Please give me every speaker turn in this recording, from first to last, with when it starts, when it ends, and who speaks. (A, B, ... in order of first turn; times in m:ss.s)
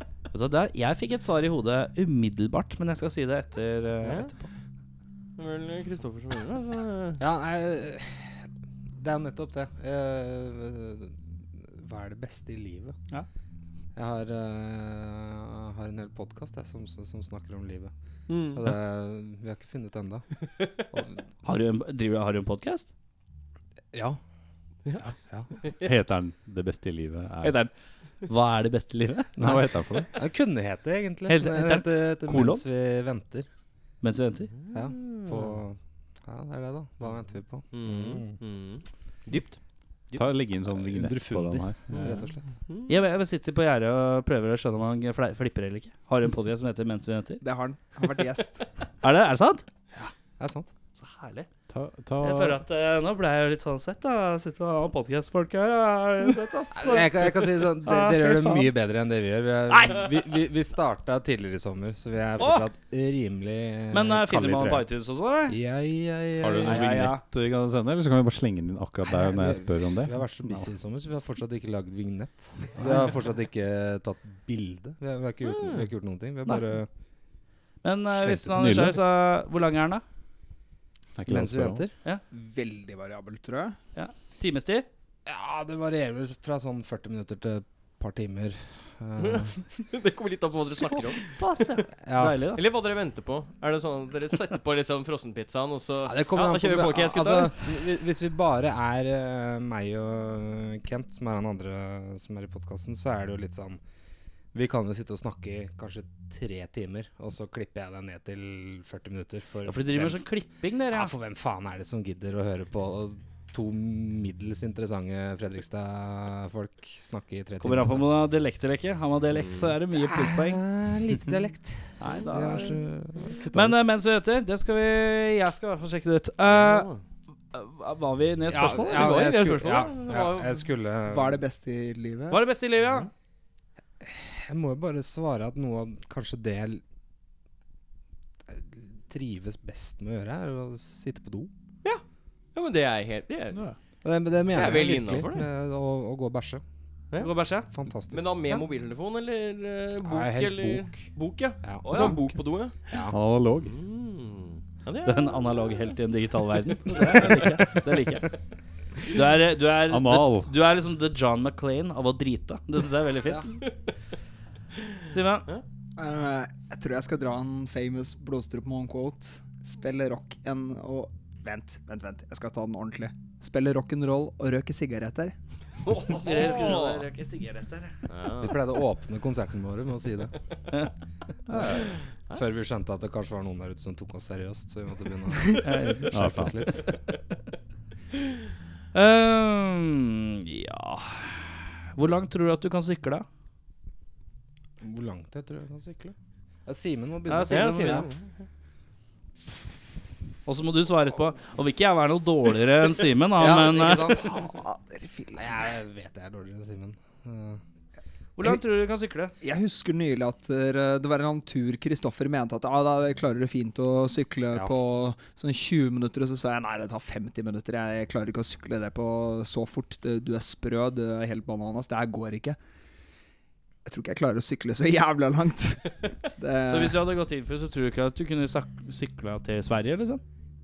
0:00.3-0:04.5 A
0:04.0-0:04.3 B
0:05.4-0:07.2 B
0:07.2-0:08.4 C
0:09.0-0:13.0 C
0:13.9-0:17.9 C
0:18.3-0:18.7 B
0:18.4-0:20.2 C
0:20.9-0:21.2 C
0:21.4-0:22.9 A
0:23.9-0:24.2 C
0:25.0-0:25.5 C
0:25.8-0:27.6 D
0:27.4-0:27.7 A
0:28.2-0:29.4 A
0:29.4-0:33.5 C
0:29.4-0:30.1 D
0:31.3-0:32.6 A
0:34.0-0:34.5 A
0:34.6-0:35.6 B
0:34.7-0:38.4 C
0:37.7-0:38.8 B
0:40.1-0:42.5 C
0:40.1-0:42.2 D
0:41.9-0:42.9 B
0:42.9-0:47.4 A
0:47.4-0:48.6 E
0:49.0-0:49.6 A
0:50.0-0:50.7 C
0:51.0-0:51.5 A
0:51.7-0:52.6 D
0:52.2-0:58.7 A
0:56.7-1:04.9 C
0:59.7-1:00.1 A
1:02.4-1:02.7 A
1:03.9-1:05.6 A
1:05.5-1:06.9 C
1:06.4-1:10.7 D
1:06.6-1:07.2 A
1:09.0-1:16.9 C
1:15.4-1:15.9 B
1:17.8-1:20.0 A
1:18.1-1:18.8 C
1:18.6-1:19.0 D
1:21.2-1:21.8 D
1:21.3-1:21.9 C
1:22.3-1:23.8 E
1:23.9-1:24.8 A
1:25.2-1:29.6 C
1:29.2-1:31.2 B
1:30.8-1:32.6 A
1:32.0-1:32.5 C
1:32.5-1:37.7 B
1:36.0-1:43.8 C
1:44.5-1:50.4 C
1:49.6-1:51.1 A
1:50.9-1:58.1 C
1:57.6-2:00.6 A
1:59.4-1:59.7 B
1:59.9-2:03.8 C
2:02.0-2:02.8 A
2:02.0-2:02.7 B
2:03.5-2:06.9 A
2:06.4-2:07.0 B
2:07.5-2:09.1 A
2:08.5-2:11.4 C
2:08.8-2:10.6 B
2:11.0-2:12.4 E
2:12.3-2:13.1 A
2:14.0-2:16.8 C
2:18.5-2:21.5 C
2:22.5-2:23.6 B
2:24.0-2:26.6 C
2:24.5-2:25.4 B
2:27.2-2:27.7 A
2:27.7-2:28.3 C
2:28.1-2:32.9 B
2:30.0-2:31.1 C
2:31.6-2:32.3 C
2:31.8-2:32.2 A
2:32.9-2:33.2 C
2:33.1-2:33.7 D
2:33.6-2:35.7 B
2:35.0-2:38.3 A
2:39.1-2:43.6 A
2:39.9-2:40.5 D
2:45.1-2:45.5 A
2:46.0-2:55.3 E
2:55.8-2:57.9 A
2:56.1-2:57.0 B
2:58.1-2:58.6 B
2:58.4-3:00.3 C
3:01.5-3:06.9 C
3:05.6-3:06.4 A
3:06.1-3:06.6 D
3:08.9-3:13.2 A
3:14.8-3:18.1 C
3:17.3-3:18.1 A
3:17.5-3:18.4 B
3:20.4-3:24.1 A
3:23.4-3:24.4 C
3:24.2-3:25.7 E
3:25.3-3:27.6 C
3:28.4-3:29.3 A
3:29.4-3:42.6 E
3:43.8-3:47.0 E
3:46.6-3:50.2 A